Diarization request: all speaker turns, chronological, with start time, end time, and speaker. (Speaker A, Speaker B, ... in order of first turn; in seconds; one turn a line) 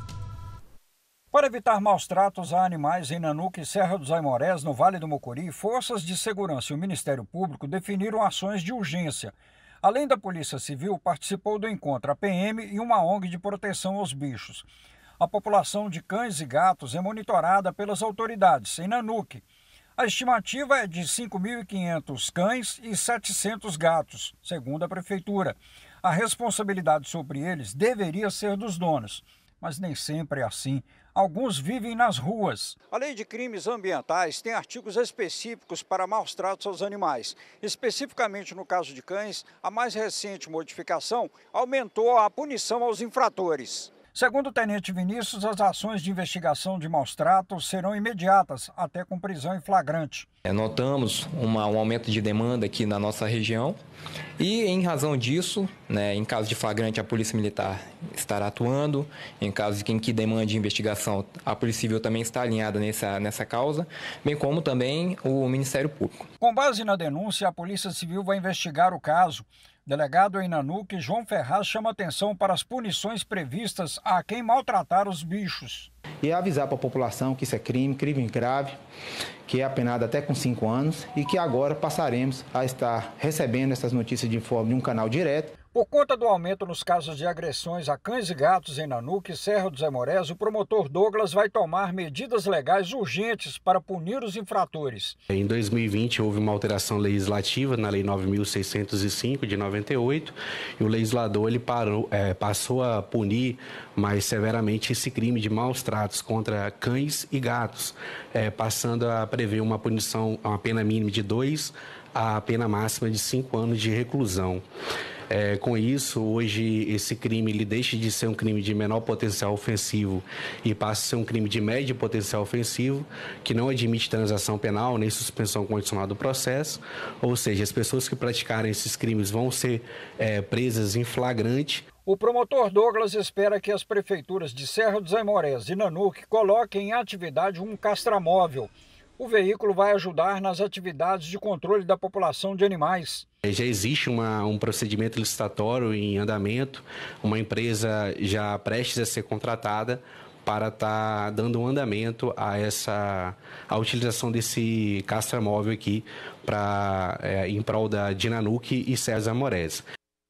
Speaker A: 1.3-14.7
Speaker A: 15.2-19.4
Speaker A: 20.0-50.3
Speaker B: 50.5-53.8
Speaker B: 54.4-66.3
Speaker A: 66.4-75.9
Speaker C: 76.2-78.8
Speaker C: 79.5-85.5
Speaker A: 85.7-95.2
Speaker D: 95.3-114.6
Speaker D: 115.3-131.8
Speaker A: 132.1-143.2
Speaker D: 143.4-159.8